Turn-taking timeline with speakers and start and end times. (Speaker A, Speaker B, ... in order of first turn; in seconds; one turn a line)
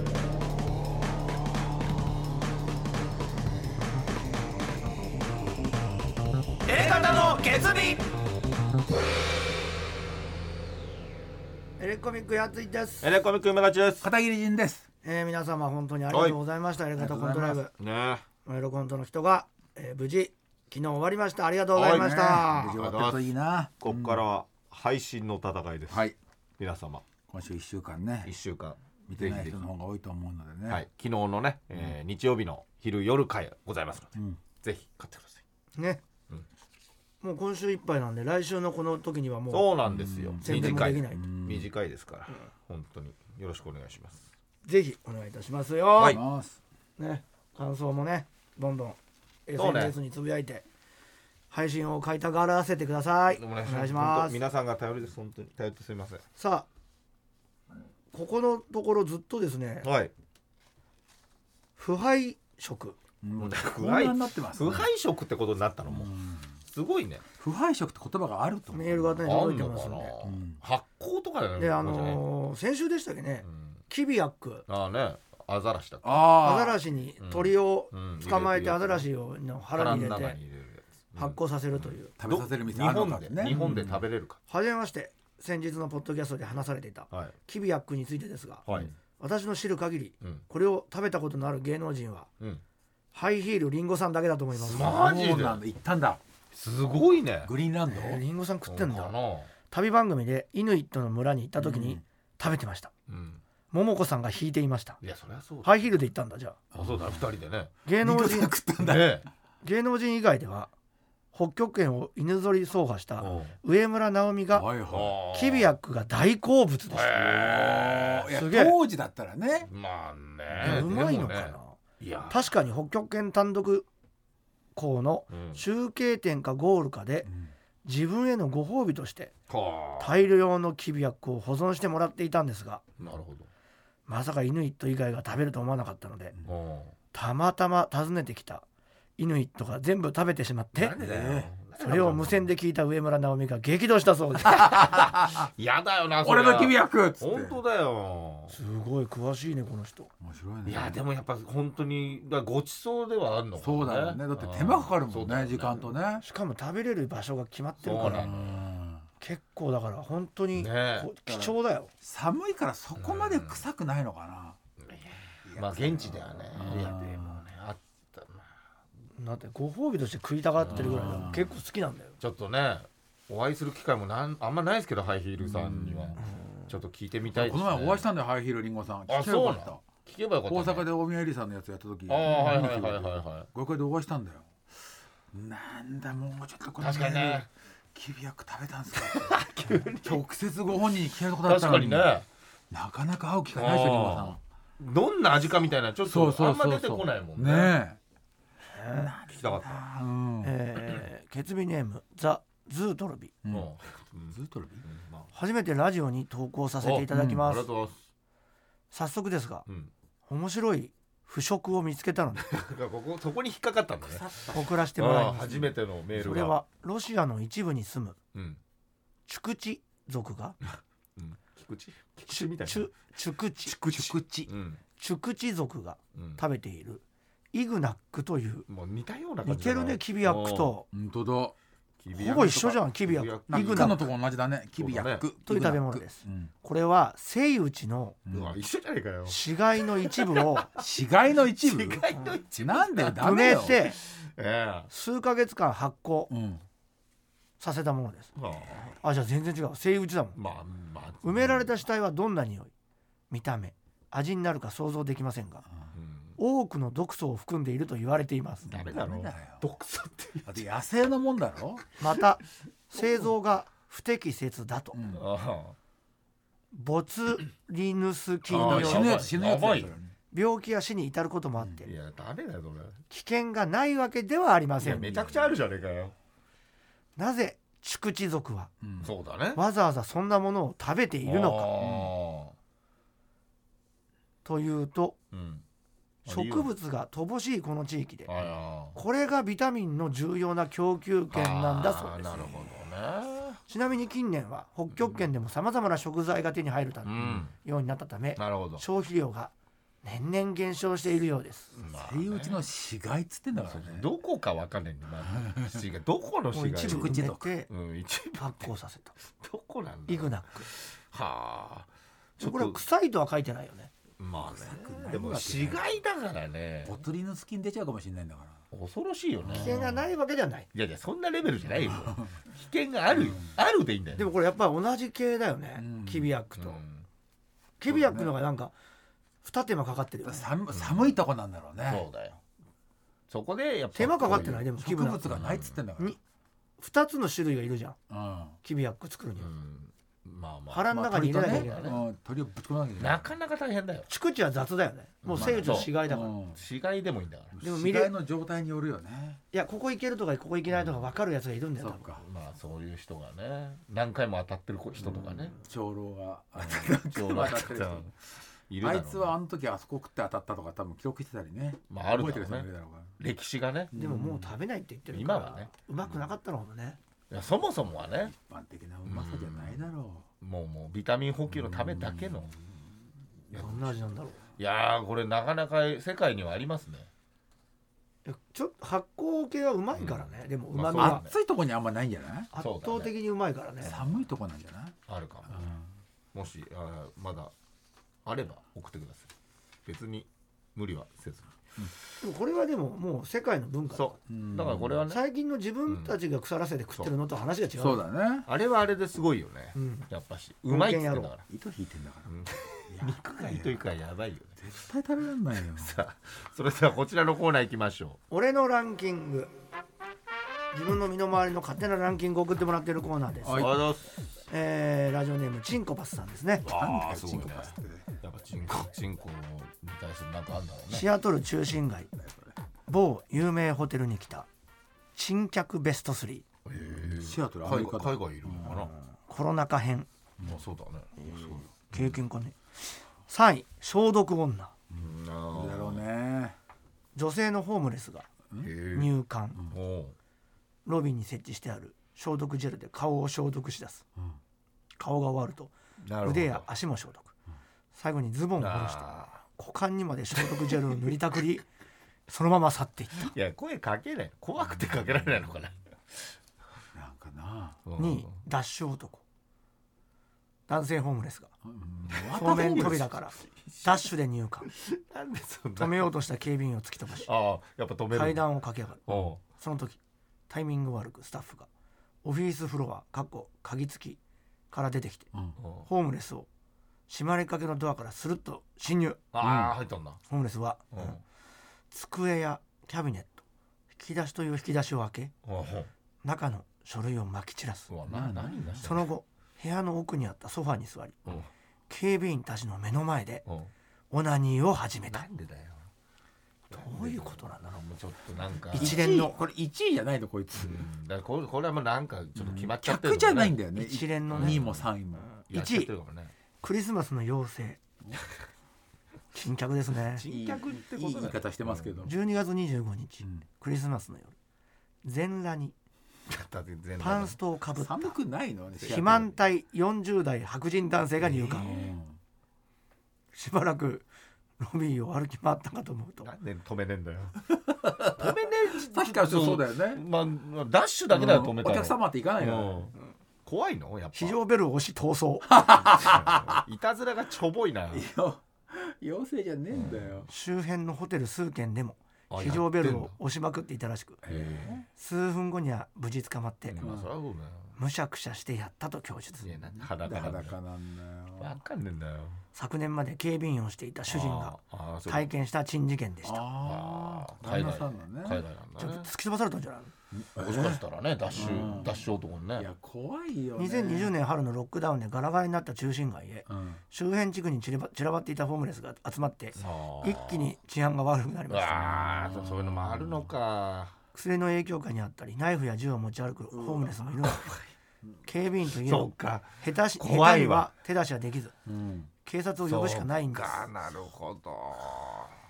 Speaker A: 6.7-8.0
Speaker A: 11.8-13.1
Speaker B: 13.0-14.1
Speaker C: 14.0-14.8
Speaker A: 15.0-17.7
Speaker B: 16.1-16.4
Speaker C: 17.0-17.6
Speaker B: 17.7-18.2
Speaker A: 18.4-22.5
Speaker B: 21.7-23.2
Speaker C: 21.8-24.2
Speaker B: 23.8-27.0
Speaker C: 25.9-26.1
Speaker C: 27.3-28.3
Speaker B: 28.2-29.7
Speaker C: 29.1-30.8
Speaker B: 30.7-35.4
Speaker A: 35.8-36.0
Speaker A: 37.2-39.7
Speaker B: 39.5-44.3
Speaker C: 39.8-41.7
Speaker A: 40.4-41.3
Speaker A: 44.6-46.2
Speaker B: 46.0-46.2
Speaker C: 46.1-46.6
Speaker A: 47.0-50.7
Speaker B: 49.6-50.0
Speaker A: 51.5-54.4
Speaker B: 53.3-56.2
Speaker A: 56.4-56.7
Speaker A: 58.1-59.9
Speaker B: 59.8-60.1
Speaker A: 61.8-63.0
Speaker C: 63.2-64.9
Speaker B: 63.4-66.1
Speaker C: 65.9-66.5
Speaker B: 66.7-67.2
Speaker C: 67.4-69.2
Speaker A: 68.7-70.1
Speaker B: 69.2-72.2
Speaker C: 70.2-70.6
Speaker A: 71.6-74.6
Speaker B: 73.4-73.8
Speaker B: 74.7-76.2
Speaker C: 76.0-76.8
Speaker A: 76.3-80.4
Speaker B: 77.2-79.0
Speaker B: 79.8-84.4
Speaker A: 81.2-82.1
Speaker C: 82.2-84.0
Speaker A: 84.5-88.6
Speaker B: 88.7-88.9
Speaker A: 89.2-92.3
Speaker A: 93.1-95.0
Speaker B: 94.6-95.6
Speaker C: 94.7-96.2
Speaker B: 96.5-97.5
Speaker C: 97.4-98.2
Speaker A: 97.9-99.2
Speaker B: 98.7-99.5
Speaker A: 99.7-102.9
Speaker C: 101.6-102.0
Speaker B: 103.1-103.4
Speaker A: 103.7-105.0
Speaker B: 105.0-105.7
Speaker A: 105.6-106.6
Speaker C: 106.7-107.3
Speaker B: 106.7-107.7
Speaker A: 107.9-108.5
Speaker C: 108.0-109.2
Speaker B: 108.8-109.3
Speaker A: 109.6-110.7
Speaker A: 111.3-114.7
Speaker B: 113.2-113.5
Speaker C: 114.5-115.1
Speaker B: 114.9-115.7
Speaker A: 115.3-117.2
Speaker B: 116.9-118.3
Speaker C: 117.2-119.7
Speaker A: 118.3-118.8
Speaker B: 119.7-122.5
Speaker C: 120.5-120.9
Speaker A: 120.6-121.8
Speaker A: 122.3-123.8
Speaker A: 124.8-127.3
Speaker B: 125.3-125.6
Speaker C: 127.2-127.5
Speaker A: 127.8-129.3
Speaker B: 129.5-130.2
Speaker A: 130.0-132.8
Speaker B: 133.0-133.5
Speaker A: 134.1-136.3
Speaker B: 136.4-136.9
Speaker A: 137.1-138.7
Speaker A: 139.2-141.0
Speaker B: 140.8-142.5
Speaker C: 141.0-141.5
Speaker A: 141.8-144.8
Speaker C: 144.5-145.5
Speaker B: 144.8-148.6
Speaker C: 146.2-147.6
Speaker A: 148.5-150.1
Speaker C: 150.2-151.0
Speaker B: 150.7-155.9
Speaker C: 153.6-156.2
Speaker A: 156.2-158.3
Speaker B: 157.8-158.7
Speaker C: 158.0-159.1
Speaker A: 159.2-161.9
Speaker B: 160.6-161.1
Speaker C: 161.2-164.6
Speaker B: 163.0-163.6
Speaker B: 164.8-168.5
Speaker C: 165.4-167.4
Speaker A: 169.2-172.2
Speaker B: 170.6-171.3
Speaker C: 170.7-171.6
Speaker B: 172.2-178.1
Speaker C: 175.4-176.2
Speaker A: 176.2-176.7
Speaker C: 177.3-179.8
Speaker B: 179.1-180.9
Speaker C: 180.5-184.8
Speaker B: 182.1-183.5
Speaker C: 185.3-192.1
Speaker B: 186.8-187.5
Speaker B: 189.0-190.2
Speaker B: 191.4-192.2
Speaker C: 192.7-194.4
Speaker B: 193.5-197.8
Speaker C: 196.1-198.0
Speaker A: 198.7-199.1
Speaker C: 198.9-200.6
Speaker B: 199.3-199.8
Speaker A: 200.4-203.3
Speaker C: 203.4-203.7
Speaker B: 203.5-205.3
Speaker C: 204.3-204.8
Speaker A: 205.3-207.7
Speaker B: 206.8-208.0
Speaker C: 207.1-207.5
Speaker A: 208.9-209.7
Speaker A: 210.2-212.5
Speaker B: 212.5-214.3
Speaker C: 214.1-214.7
Speaker A: 214.5-218.2
Speaker B: 215.0-216.6
Speaker B: 218.3-218.6
Speaker A: 219.3-220.6
Speaker B: 221.2-222.9
Speaker A: 222.3-223.8
Speaker B: 223.7-224.8
Speaker C: 223.9-224.5
Speaker A: 225.0-228.7
Speaker B: 226.2-226.4
Speaker B: 228.7-230.7
Speaker A: 229.4-230.9
Speaker C: 230.9-231.6
Speaker B: 232.0-234.1
Speaker A: 232.2-234.0
Speaker C: 233.5-236.5
Speaker B: 234.8-235.2
Speaker A: 235.4-238.2
Speaker C: 238.3-238.6
Speaker B: 238.3-239.4
Speaker A: 239.3-240.7
Speaker B: 240.0-240.8
Speaker C: 240.8-243.8
Speaker B: 241.6-244.9
Speaker A: 243.2-244.0
Speaker A: 244.9-246.3
Speaker C: 246.3-246.6
Speaker A: 247.6-248.3
Speaker B: 248.3-249.0
Speaker A: 249.0-250.4
Speaker B: 250.4-251.7
Speaker A: 251.2-252.7
Speaker A: 253.3-255.6
Speaker B: 255.9-256.4
Speaker A: 256.4-258.7
Speaker C: 258.7-259.6
Speaker B: 258.7-260.6
Speaker C: 260.4-261.8
Speaker A: 262.0-265.0
Speaker C: 264.9-265.2
Speaker B: 265.1-265.8
Speaker A: 266.7-269.3
Speaker C: 268.5-270.1
Speaker B: 268.5-269.9
Speaker A: 270.3-271.9
Speaker B: 271.9-273.0
Speaker A: 273.1-275.2
Speaker B: 274.8-276.1
Speaker C: 274.9-275.6
Speaker A: 277.2-278.7
Speaker C: 278.8-279.1
Speaker B: 279.0-279.6
Speaker A: 279.6-281.7
Speaker B: 281.2-282.6
Speaker C: 281.8-282.1
Speaker A: 284.4-285.2
Speaker B: 285.3-285.6
Speaker B: 286.2-286.7
Speaker A: 286.3-288.3
Speaker B: 288.3-289.0
Speaker A: 288.9-292.3
Speaker B: 291.3-293.6
Speaker A: 293.7-301.8
Speaker B: 297.1-297.5
Speaker B: 298.4-298.8
Speaker B: 301.7-302.6
Speaker C: 301.9-304.1
Speaker B: 303.6-308.7
Speaker C: 305.3-305.8
Speaker A: 306.5-307.7
Speaker C: 306.8-307.5
Speaker A: 308.4-309.1
Speaker B: 309.4-312.8
Speaker A: 310.1-310.7
Speaker A: 312.4-313.9
Speaker B: 314.2-317.0
Speaker C: 314.4-316.0
Speaker C: 316.9-318.6
Speaker B: 318.7-319.8
Speaker C: 319.4-320.0
Speaker A: 319.6-320.7
Speaker B: 320.7-324.3
Speaker C: 321.9-322.3
Speaker C: 323.1-323.6
Speaker A: 324.1-326.8
Speaker C: 325.8-326.3
Speaker B: 326.6-327.1
Speaker A: 327.8-328.7
Speaker C: 327.9-328.3
Speaker A: 329.4-330.5
Speaker C: 330.2-332.1
Speaker B: 330.7-331.1
Speaker B: 331.8-332.4
Speaker B: 333.3-334.7
Speaker A: 333.9-335.2
Speaker C: 334.3-336.2
Speaker B: 335.2-335.8
Speaker A: 336.8-338.0
Speaker C: 338.1-338.6
Speaker A: 338.6-339.5
Speaker B: 339.4-342.0
Speaker A: 340.7-341.9
Speaker C: 340.9-343.3
Speaker B: 343.0-344.1
Speaker A: 344.1-346.3
Speaker B: 345.2-345.9
Speaker C: 345.3-346.6
Speaker B: 346.5-347.5
Speaker C: 347.5-349.4
Speaker A: 347.6-348.1
Speaker A: 349.5-352.0
Speaker B: 350.7-351.1
Speaker C: 351.8-352.2
Speaker B: 352.2-355.6
Speaker C: 355.0-358.1
Speaker B: 356.6-358.1
Speaker B: 358.7-359.4
Speaker C: 358.8-363.2
Speaker B: 361.9-362.7
Speaker B: 363.2-363.9
Speaker C: 363.9-364.5
Speaker A: 363.9-367.0
Speaker B: 365.1-365.7
Speaker B: 367.3-368.3
Speaker C: 368.2-370.3
Speaker B: 369.1-369.8
Speaker B: 370.4-372.5
Speaker C: 371.5-372.8
Speaker B: 373.5-377.1
Speaker A: 373.5-374.4
Speaker A: 378.2-381.2
Speaker B: 379.9-381.3
Speaker C: 381.0-382.5
Speaker A: 382.5-384.0
Speaker B: 382.6-383.1
Speaker C: 383.8-384.9
Speaker B: 385.1-385.7
Speaker C: 385.5-385.9
Speaker B: 386.3-387.5
Speaker B: 388.2-389.3
Speaker B: 389.9-391.5
Speaker A: 392.2-394.1
Speaker B: 393.9-395.2
Speaker C: 394.3-395.0
Speaker A: 395.1-398.0
Speaker B: 395.9-396.1
Speaker C: 397.8-398.5
Speaker B: 398.5-401.5
Speaker A: 399.8-400.1
Speaker A: 400.7-401.3
Speaker C: 401.5-402.4
Speaker B: 402.3-404.6
Speaker C: 402.9-403.8
Speaker C: 404.6-405.9
Speaker B: 405.8-408.2
Speaker A: 408.3-409.5
Speaker A: 410.7-413.7
Speaker C: 413.4-413.9
Speaker B: 413.5-414.1
Speaker A: 414.5-416.6
Speaker B: 416.6-417.7
Speaker C: 416.6-418.1
Speaker B: 418.2-421.1
Speaker A: 420.9-422.1
Speaker C: 422.2-422.6
Speaker A: 422.9-424.5
Speaker A: 425.1-426.5
Speaker B: 426.7-428.9
Speaker C: 426.8-428.8
Speaker A: 428.6-430.1
Speaker B: 430.4-431.1
Speaker A: 431.2-432.6
Speaker C: 431.2-432.1
Speaker A: 433.3-434.7
Speaker C: 434.9-436.6
Speaker B: 435.0-436.0
Speaker A: 437.1-438.3
Speaker B: 438.6-439.1
Speaker A: 438.9-439.6
Speaker B: 439.7-440.1
Speaker A: 440.9-444.1
Speaker A: 445.0-447.3
Speaker B: 446.0-446.6
Speaker A: 447.9-451.7
Speaker B: 448.6-449.4
Speaker A: 452.3-453.4
Speaker B: 453.3-456.4
Speaker C: 456.9-457.8
Speaker B: 457.9-458.3
Speaker A: 457.9-459.2
Speaker A: 460.7-461.5
Speaker C: 461.6-463.1
Speaker B: 462.1-464.1
Speaker A: 462.4-464.7
Speaker B: 464.7-466.1
Speaker A: 465.8-467.3
Speaker B: 467.2-468.5
Speaker A: 468.1-471.7
Speaker B: 469.1-469.4
Speaker A: 472.2-474.2
Speaker A: 474.7-475.3
Speaker C: 475.3-475.6
Speaker B: 475.6-475.9
Speaker A: 475.9-476.5
Speaker A: 477.1-479.2
Speaker B: 479.3-480.2
Speaker C: 479.4-479.8
Speaker A: 480.3-481.2
Speaker B: 480.9-481.2
Speaker A: 481.9-485.3
Speaker B: 485.4-485.9
Speaker A: 486.2-487.9
Speaker B: 487.9-489.1
Speaker C: 488.1-488.9
Speaker A: 488.8-491.2
Speaker A: 491.9-493.4
Speaker A: 494.1-495.2
Speaker B: 495.1-495.9
Speaker A: 496.7-497.7
Speaker B: 496.7-499.0
Speaker A: 498.7-499.4
Speaker C: 498.8-500.9
Speaker B: 500.6-503.6
Speaker C: 502.4-505.3
Speaker A: 503.8-504.6
Speaker B: 504.3-504.9
Speaker A: 505.2-505.9
Speaker B: 505.5-506.3
Speaker A: 506.6-507.8
Speaker A: 509.3-510.3
Speaker B: 510.1-512.0
Speaker C: 510.3-512.1
Speaker A: 512.0-514.3
Speaker A: 515.0-515.7
Speaker B: 516.3-517.4
Speaker A: 517.0-518.1
Speaker C: 517.8-519.4
Speaker A: 518.8-521.7
Speaker C: 521.2-522.2
Speaker B: 521.5-521.8
Speaker A: 523.3-524.1
Speaker A: 524.6-526.3
Speaker B: 526.2-527.4
Speaker C: 527.7-530.0
Speaker B: 528.0-532.9
Speaker C: 531.1-532.9
Speaker B: 533.4-534.4
Speaker A: 534.1-535.5
Speaker C: 535.5-536.6
Speaker B: 535.8-538.1
Speaker C: 537.9-540.3
Speaker B: 539.7-540.2
Speaker A: 540.3-544.2
Speaker B: 542.3-543.1
Speaker C: 544.2-544.9
Speaker B: 544.3-544.7
Speaker A: 544.9-546.8
Speaker B: 546.7-547.8
Speaker C: 546.8-547.1
Speaker A: 547.8-549.5
Speaker B: 549.4-550.6
Speaker C: 549.8-551.5
Speaker B: 551.4-552.4
Speaker A: 552.5-556.4
Speaker B: 554.1-555.3
Speaker C: 556.2-558.4
Speaker B: 556.6-559.1
Speaker A: 558.8-559.9
Speaker C: 560.1-564.1
Speaker B: 560.4-562.7
Speaker A: 563.6-571.9
Speaker C: 566.5-566.8
Speaker B: 569.6-570.5
Speaker B: 571.5-573.9
Speaker C: 571.8-573.3
Speaker A: 574.1-577.5
Speaker C: 576.5-577.1
Speaker B: 577.3-577.6
Speaker A: 578.2-581.5
Speaker B: 578.8-580.7
Speaker C: 581.6-582.1
Speaker A: 582.2-583.6
Speaker B: 582.6-585.4